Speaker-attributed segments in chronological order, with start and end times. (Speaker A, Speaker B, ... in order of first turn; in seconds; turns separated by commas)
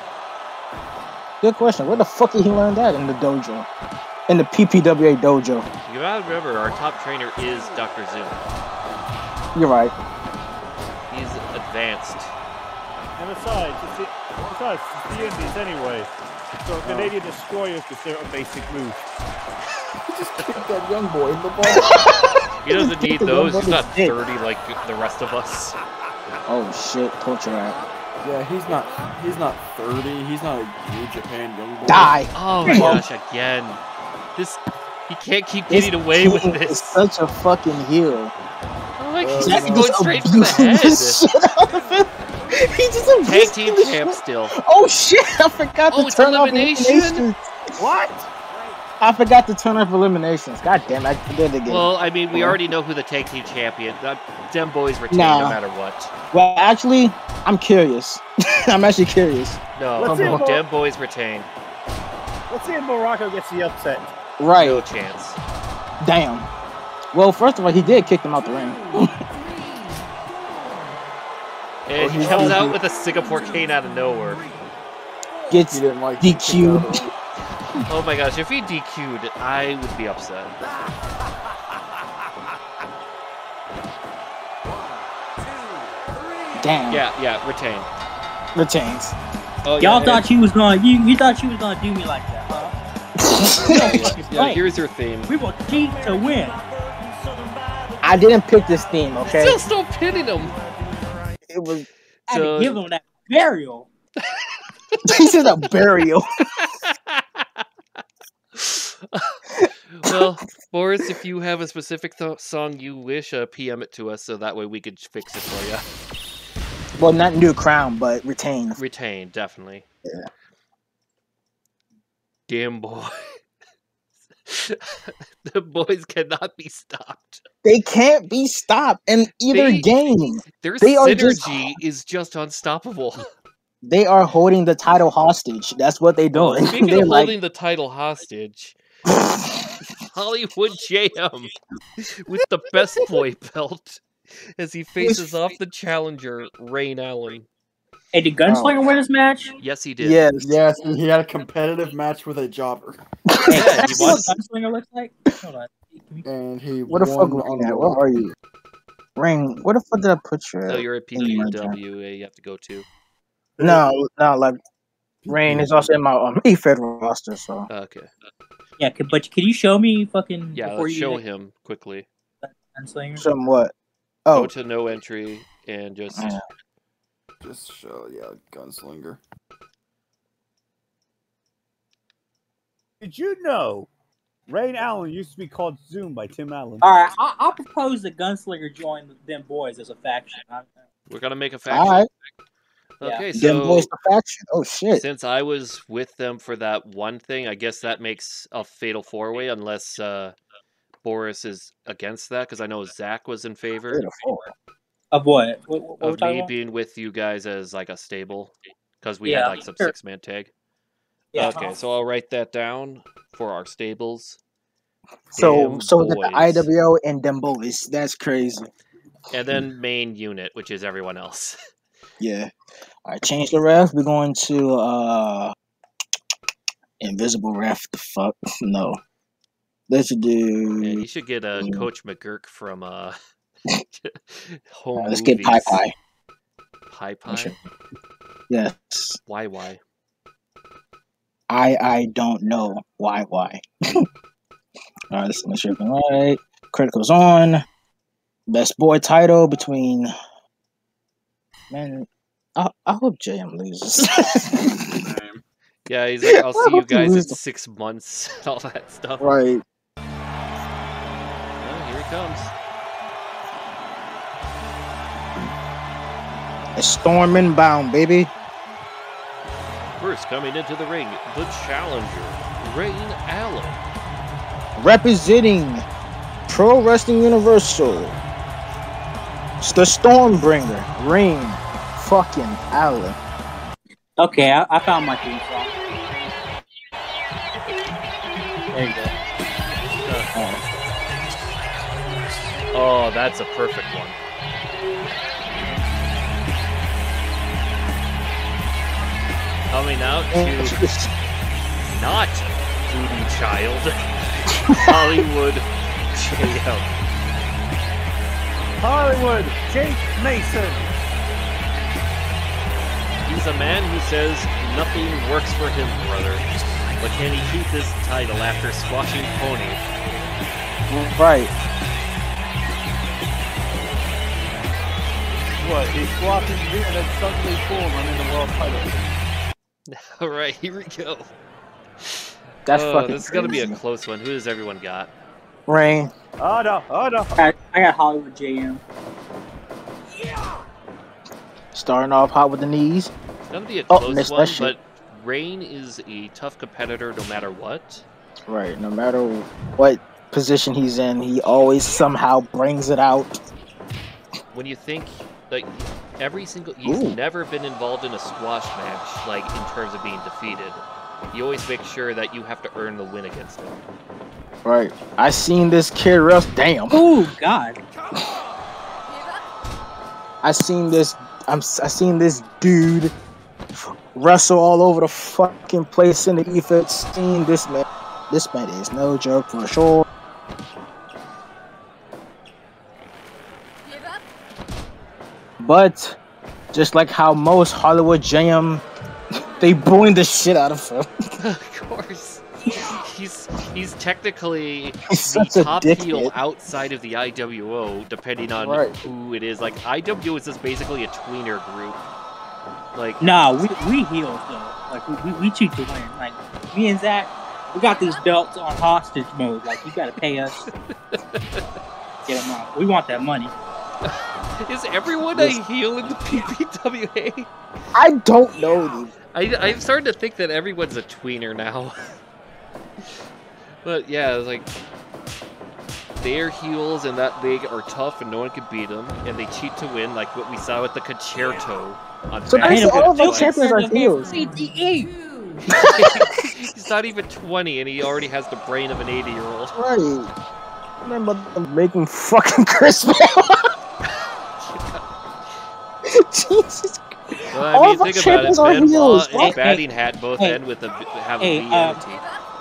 Speaker A: 1.4-3.7, Speaker A: 4.3-5.7, Speaker B: 5.9-8.4, Speaker A: 9.5-9.9, Speaker B: 11.1-12.3, Speaker C: 13.2-16.1, Speaker C: 16.6-19.0, Speaker A: 16.8-17.1, Speaker D: 20.1-22.0, Speaker A: 21.6-24.1, Speaker B: 22.6-25.8, Speaker A: 26.5-27.8, Speaker D: 28.2-32.2, Speaker A: 31.8-33.0, Speaker B: 32.3-33.8, Speaker B: 34.4-37.0, Speaker A: 35.7-38.3, Speaker B: 39.0-41.2, Speaker D: 39.2-40.0, Speaker A: 39.4-47.5, Speaker B: 43.2-44.5, Speaker B: 45.9-47.3, Speaker C: 47.8-48.3, Speaker A: 49.0-52.6, Speaker B: 51.6-56.1, Speaker A: 55.1-55.6, Speaker A: 56.3-60.4, Speaker B: 59.8-61.5, Speaker C: 60.0-60.6, Speaker C: 62.5-64.1, Speaker A: 64.4-64.8, Speaker B: 64.6-65.4, Speaker A: 66.0-66.5, Speaker A: 67.1-69.2, Speaker B: 71.9-74.5, Speaker D: 72.0-72.8, Speaker A: 72.2-72.7, Speaker A: 75.5-77.1, Speaker D: 75.7-77.1, Speaker B: 77.8-80.5, Speaker A: 86.6-87.0, Speaker B: 86.9-87.9, Speaker A: 88.5-89.1, Speaker B: 89.6-90.2, Speaker E: 89.8-92.7, Speaker A: 93.2-94.1, Speaker E: 93.6-94.6, Speaker B: 93.7-95.3, Speaker D: 93.7-94.5, Speaker E: 95.3-96.6, Speaker A: 98.0-99.6, Speaker B: 99.2-100.6, Speaker A: 101.5-101.9, Speaker B: 102.3-102.8, Speaker E: 102.3-103.9, Speaker A: 105.0-106.3, Speaker B: 106.6-107.6, Speaker B: 108.5-109.4, Speaker A: 109.6-110.3, Speaker B: 109.9-115.8, Speaker A: 117.0-118.8, Speaker B: 118.8-119.8, Speaker B: 122.5-123.4, Speaker B: 124.4-127.4, Speaker A: 127.6-131.8, Speaker B: 129.5-129.9, Speaker B: 130.6-133.3, Speaker A: 133.8-137.3, Speaker B: 136.3-138.8, Speaker A: 139.1-139.8, Speaker B: 140.1-144.0, Speaker B: 144.6-147.5, Speaker A: 145.0-145.3, Speaker E: 148.1-149.6, Speaker A: 148.5-148.9, Speaker B: 149.6-150.2, Speaker A: 150.0-150.6, Speaker D: 150.4-153.0, Speaker A: 153.3-154.3, Speaker E: 153.5-156.2, Speaker B: 153.5-154.3, Speaker D: 156.2-158.3, Speaker A: 156.9-158.3, Speaker A: 159.2-161.8, Speaker B: 160.7-162.9, Speaker A: 163.6-164.6, Speaker D: 165.2-165.8, Speaker A: 165.3-167.7, Speaker B: 167.7-168.1, Speaker E: 168.8-171.2, Speaker B: 170.5-172.1, Speaker E: 172.4-173.3, Speaker A: 173.2-173.7, Speaker A: 174.2-174.5, Speaker B: 174.3-176.4, Speaker A: 176.1-176.4, Speaker D: 177.4-179.2, Speaker C: 183.0-183.9, Speaker C: 184.5-186.9, Speaker E: 186.8-190.7, Speaker B: 191.1-192.0, Speaker A: 191.7-192.1, Speaker B: 193.0-193.9, Speaker E: 193.0-193.3, Speaker A: 193.3-195.0, Speaker B: 194.9-200.3, Speaker B: 201.0-204.1, Speaker A: 203.9-204.5, Speaker E: 205.1-206.5, Speaker B: 206.0-210.5, Speaker E: 209.2-209.9, Speaker E: 211.3-211.8, Speaker B: 211.3-214.4, Speaker A: 215.3-218.7, Speaker B: 215.3-216.7, Speaker B: 219.3-221.6, Speaker A: 222.2-222.5, Speaker A: 223.1-225.5, Speaker A: 227.0-229.0, Speaker A: 229.9-231.0, Speaker B: 230.8-233.2, Speaker A: 231.6-231.9, Speaker B: 233.9-235.8, Speaker A: 235.0-235.9, Speaker B: 236.9-237.6, Speaker A: 237.3-237.6, Speaker A: 238.5-239.2, Speaker B: 239.3-239.8, Speaker A: 241.5-243.6, Speaker A: 245.1-247.6, Speaker A: 248.5-250.1, Speaker A: 251.7-255.0, Speaker D: 255.0-255.4, Speaker B: 255.9-259.3, Speaker A: 256.3-257.4, Speaker A: 259.2-259.6, Speaker B: 261.6-262.5, Speaker A: 266.8-268.3, Speaker B: 270.0-273.8, Speaker A: 274.8-275.8, Speaker A: 276.5-278.2, Speaker A: 279.6-283.2, Speaker E: 284.2-285.8, Speaker E: 288.7-289.1, Speaker B: 290.0-290.3, Speaker A: 290.3-290.6, Speaker B: 292.7-294.2, Speaker B: 299.7-300.8, Speaker A: 300.3-301.1, Speaker B: 301.9-303.9, Speaker A: 304.7-305.0, Speaker B: 304.7-307.0, Speaker C: 308.8-310.9, Speaker B: 313.2-316.4, Speaker B: 317.0-319.8, Speaker A: 320.9-321.5, Speaker C: 325.6-329.0, Speaker B: 329.9-331.3, Speaker B: 332.0-335.1, Speaker A: 332.6-333.8, Speaker A: 335.7-336.1, Speaker C: 336.4-337.3, Speaker E: 337.3-338.8, Speaker A: 341.7-343.1, Speaker B: 343.5-348.0, Speaker A: 343.9-344.7, Speaker A: 348.5-353.4, Speaker B: 354.5-363.8, Speaker A: 356.8-357.2, Speaker A: 364.6-367.0, Speaker E: 366.9-367.8, Speaker A: 370.4-373.1, Speaker A: 373.8-380.1, Speaker A: 385.6-386.2, Speaker A: 386.7-388.8, Speaker A: 389.5-391.1, Speaker B: 391.4-402.0, Speaker A: 395.1-396.3, Speaker D: 398.6-398.9, Speaker B: 402.9-403.2, Speaker E: 403.2-410.6, Speaker B: 410.7-411.6, Speaker E: 412.2-413.5, Speaker B: 414.0-417.5, Speaker A: 415.3-415.6, Speaker A: 417.9-419.1, Speaker B: 419.3-422.1, Speaker B: 423.8-424.7, Speaker B: 426.2-433.6, Speaker A: 432.5-434.4, Speaker E: 432.6-435.2, Speaker B: 435.7-439.7, Speaker A: 435.7-436.6, Speaker A: 439.7-440.3, Speaker A: 441.0-443.7, Speaker B: 444.7-445.0, Speaker A: 446.0-449.6, Speaker B: 447.5-452.2, Speaker E: 449.3-449.8, Speaker E: 451.4-452.0